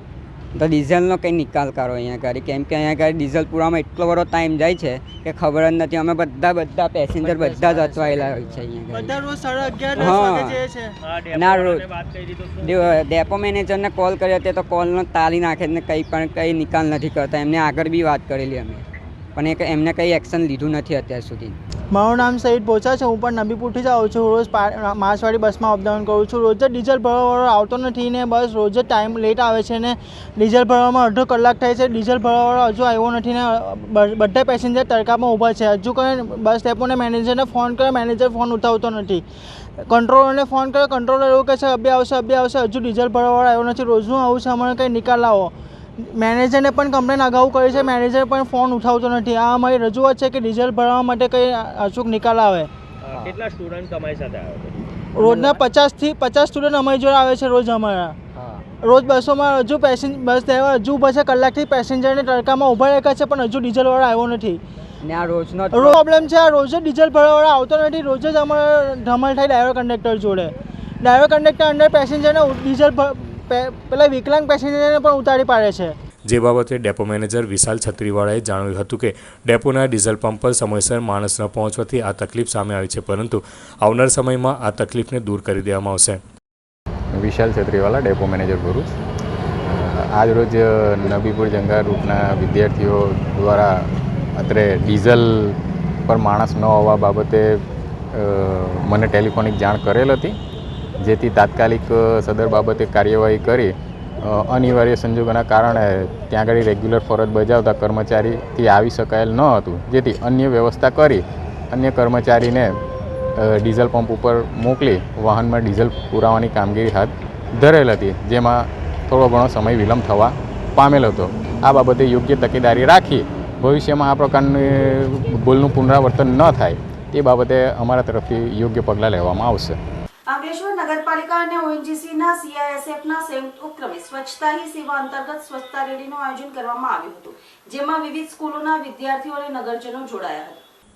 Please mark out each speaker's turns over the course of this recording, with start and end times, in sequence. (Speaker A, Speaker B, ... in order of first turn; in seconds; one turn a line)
Speaker A: 0.5-9.2
Speaker B: 7.2-8.3
Speaker C: 8.9-10.9
Speaker A: 9.9-10.6
Speaker B: 10.0-10.2
Speaker B: 11.0-13.0
Speaker A: 11.3-11.8
Speaker A: 12.6-18.8
Speaker A: 19.3-21.6
Speaker C: 21.9-39.2
Speaker C: 39.9-52.7
Speaker B: 53.0-54.7
Speaker C: 55.1-58.2
Speaker A: 55.2-55.6
Speaker A: 58.4-58.6
Speaker C: 58.8-64.6
Speaker A: 65.0-66.0
Speaker C: 65.7-75.9
Speaker D: 76.3-86.2
Speaker E: 87.1-88.9
Speaker E: 89.6-100.4
Speaker E: 101.0-112.8
Speaker E: 113.3-129.8
Speaker F: 130.3-140.6